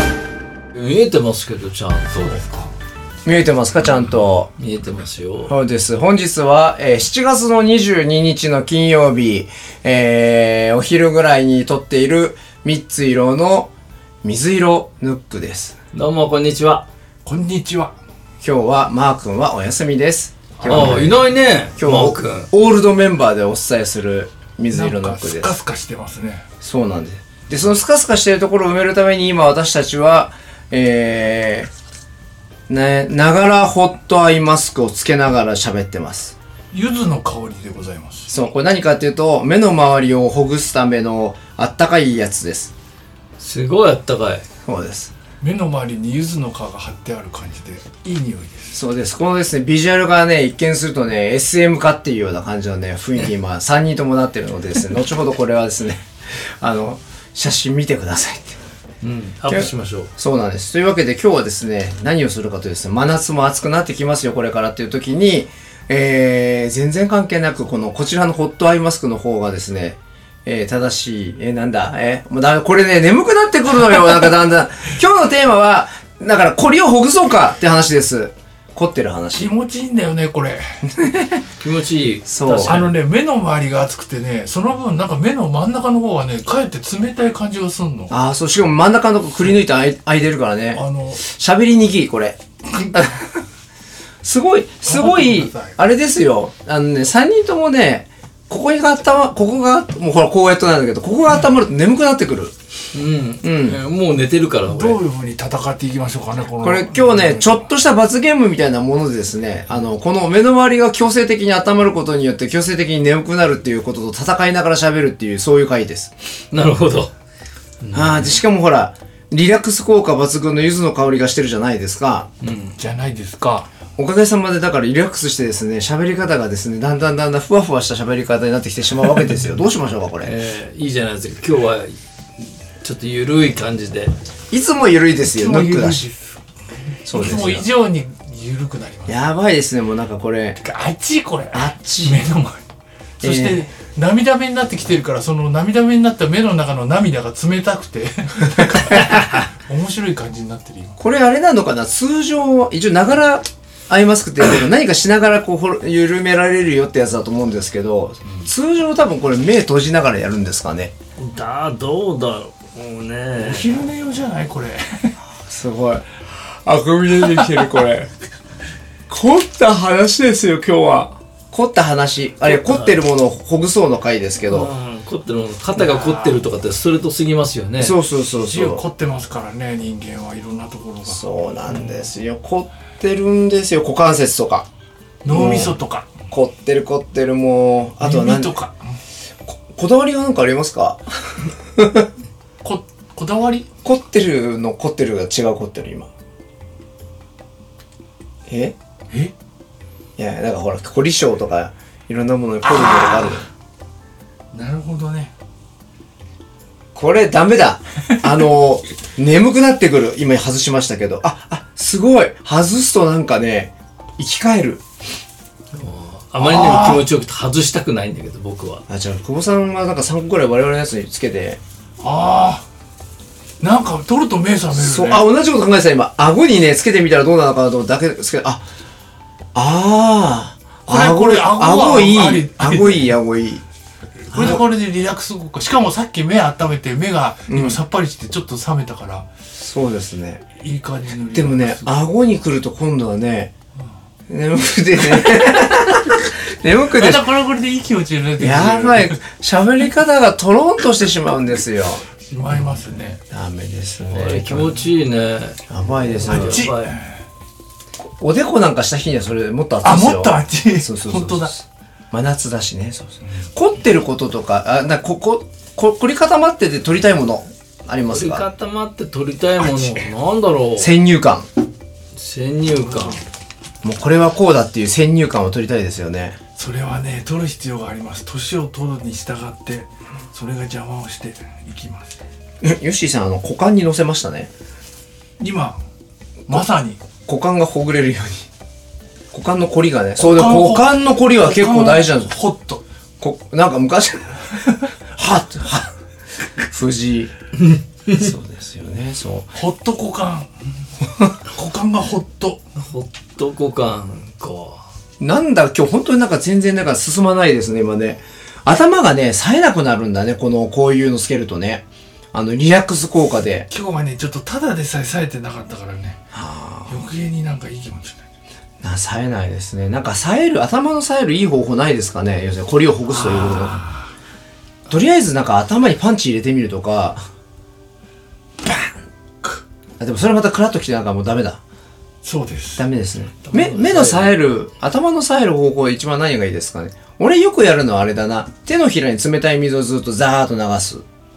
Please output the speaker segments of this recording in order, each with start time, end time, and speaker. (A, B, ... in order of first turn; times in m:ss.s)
0:00.7-0:02.4 A
0:02.1-0:02.8 B
0:03.2-0:04.5 C
0:04.6-0:05.6 A
0:05.5-0:13.7 C
0:14.2-0:15.8 C
0:15.9-0:16.9 A
0:17.2-0:18.0 B
0:18.4-0:25.6 C
0:20.6-0:20.9 B
0:20.6-0:22.5 A
0:24.7-0:26.5 B
0:26.6-0:31.7 C
0:32.7-0:36.4 C
0:36.7-0:38.3 B
0:38.3-0:42.7 C
0:43.4-0:44.5 A
0:44.6-0:45.1 C
0:45.4-0:48.8 B
0:48.7-0:58.6 C
0:59.0-1:00.1 A
0:59.5-1:19.5 C
1:19.4-1:20.8 B
1:20.9-1:21.4 C
1:21.6-1:22.9 A
1:22.2-1:22.9 C
1:22.6-1:28.1 B
1:28.1-1:33.3 C
1:30.7-1:31.2 B
1:34.2-1:42.5 C
1:34.8-1:35.8 B
1:42.9-1:45.0 A
1:43.4-1:43.8 C
1:44.7-1:47.6 B
1:46.6-1:56.1 C
1:56.5-1:57.1 A
1:57.8-1:58.4 A
1:57.9-2:02.3 C
2:02.4-2:02.8 A
2:02.8-2:03.7 B
2:04.0-2:10.3 C
2:10.2-2:12.0 A
2:12.8-2:14.1 A
2:14.5-2:16.1 C
2:15.3-2:19.2 B
2:17.0-2:17.7 C
2:19.1-2:20.6 C
2:20.6-2:22.6 B
2:21.5-2:22.2 C
2:23.2-2:31.0 B
2:23.2-2:23.7 C
2:31.0-2:40.9 C
2:41.2-2:43.8 A
2:43.3-2:45.2 B
2:45.5-2:48.1 C
2:47.2-2:47.7 B
2:49.1-2:54.7 C
2:52.5-2:53.1 A
2:54.4-2:58.0 A
2:55.7-2:56.5 B
2:57.8-2:58.8 C
2:58.3-3:02.1 B
3:01.0-3:04.7 C
3:05.2-3:06.2 B
3:05.3-3:05.8 C
3:06.3-3:08.6 C
3:08.0-3:09.0 B
3:09.5-3:12.1 C
3:12.6-3:13.7 B
3:13.8-3:16.1 C
3:18.5-3:18.8 C
3:20.2-3:23.5 C
3:24.5-3:25.3 B
3:26.9-3:34.8 C
3:35.7-3:38.8 A
3:36.4-3:37.1 B
3:38.9-3:41.6 C
3:42.0-3:42.6 B
3:43.6-3:45.3 B
3:44.7-3:48.7 C
3:49.6-3:53.6 C
3:50.9-3:53.1 B
3:54.2-3:59.3 B
3:54.3-3:54.6 C
3:57.5-3:57.8 C
3:59.5-4:00.4 C
4:00.6-4:02.1 B
4:01.3-4:03.5 C
4:04.3-4:07.3 C
4:06.9-4:09.2 B
4:08.4-4:12.1 C
4:12.2-4:13.2 B
4:13.3-4:14.8 C
4:14.1-4:16.9 A
4:15.7-4:16.7 C
4:16.2-4:17.3 B
4:18.2-4:28.5 C
4:19.8-4:21.6 B
4:28.1-4:31.0 A
4:29.6-4:30.1 B
4:30.8-4:31.5 C
4:32.2-4:33.2 A
4:32.8-4:33.2 B
4:33.8-4:36.4 C
4:36.6-4:42.2 B
4:42.6-4:44.5 C
4:45.4-4:45.8 B
4:46.5-4:47.0 B
4:47.3-4:48.5 C
4:49.3-4:52.3 C
4:50.2-4:52.8 B
4:53.2-4:55.9 C
4:56.6-4:57.3 C
4:57.6-4:58.3 A
4:58.1-4:59.6 C
4:59.6-5:00.5 B
5:01.4-5:02.8 B
5:02.8-5:04.8 A
5:05.2-5:13.7 C
5:13.7-5:16.2 B
5:16.3-5:17.0 C
5:16.9-5:18.3 B
5:18.8-5:23.8 C
5:23.1-5:24.1 B
5:24.9-5:27.2 C
5:30.0-5:31.6 C
5:32.2-5:32.9 B
5:32.8-5:41.0 C
5:33.5-5:34.4 A